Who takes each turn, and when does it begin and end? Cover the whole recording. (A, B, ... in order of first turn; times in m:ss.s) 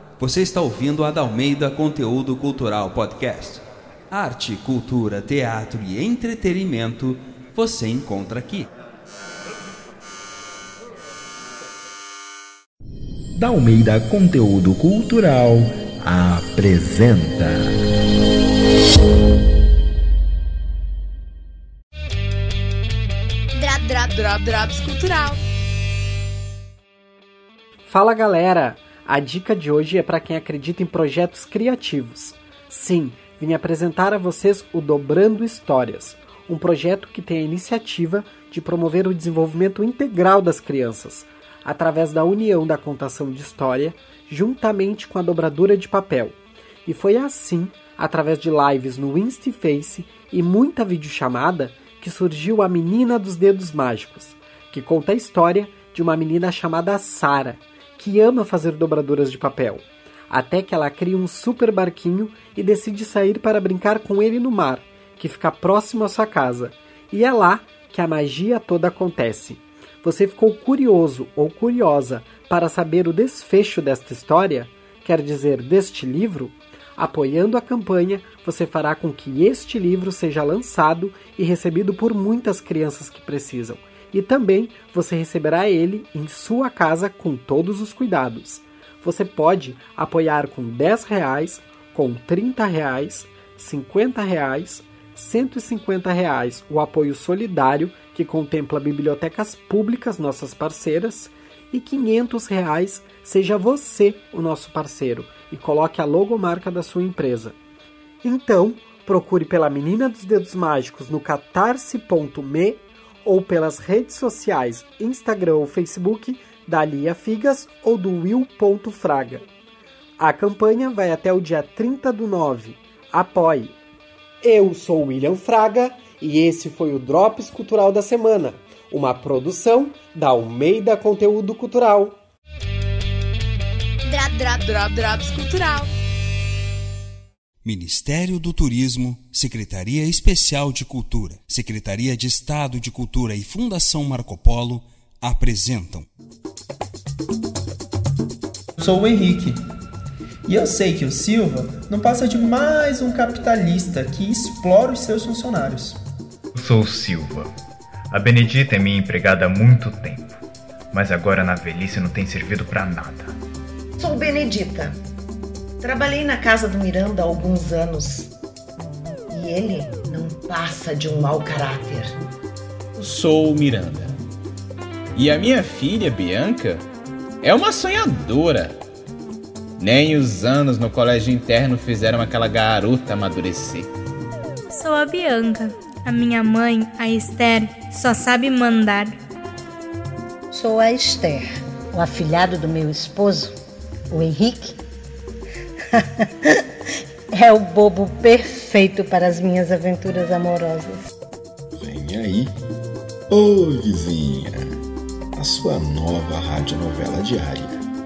0:00.2-0:08.7 A
0:13.4-0:17.7 B
0:23.6-0:25.4 C
0:27.9-0:46.4 D
0:46.9-1:47.6 D
1:48.2-1:59.5 D
2:00.2-2:03.8 D
2:04.4-2:12.2 D
2:14.1-2:15.9 C
2:17.6-2:26.1 A
2:28.8-2:29.6 E
2:30.5-2:36.0 E
2:36.6-2:37.5 F
2:38.1-2:40.4 F
2:40.9-2:43.4 F
2:44.0-2:45.0 G
2:45.8-2:48.3 G
2:49.3-2:52.2 G
2:53.0-2:54.2 H
2:55.2-2:56.8 H
2:57.4-2:58.8 H
2:59.8-3:03.9 H
3:04.7-3:09.2 I
3:10.5-3:13.5 J
3:14.1-3:14.8 J
3:17.3-3:21.0 J
3:21.8-3:22.5 K
3:23.3-3:24.6 K
3:25.4-3:27.7 K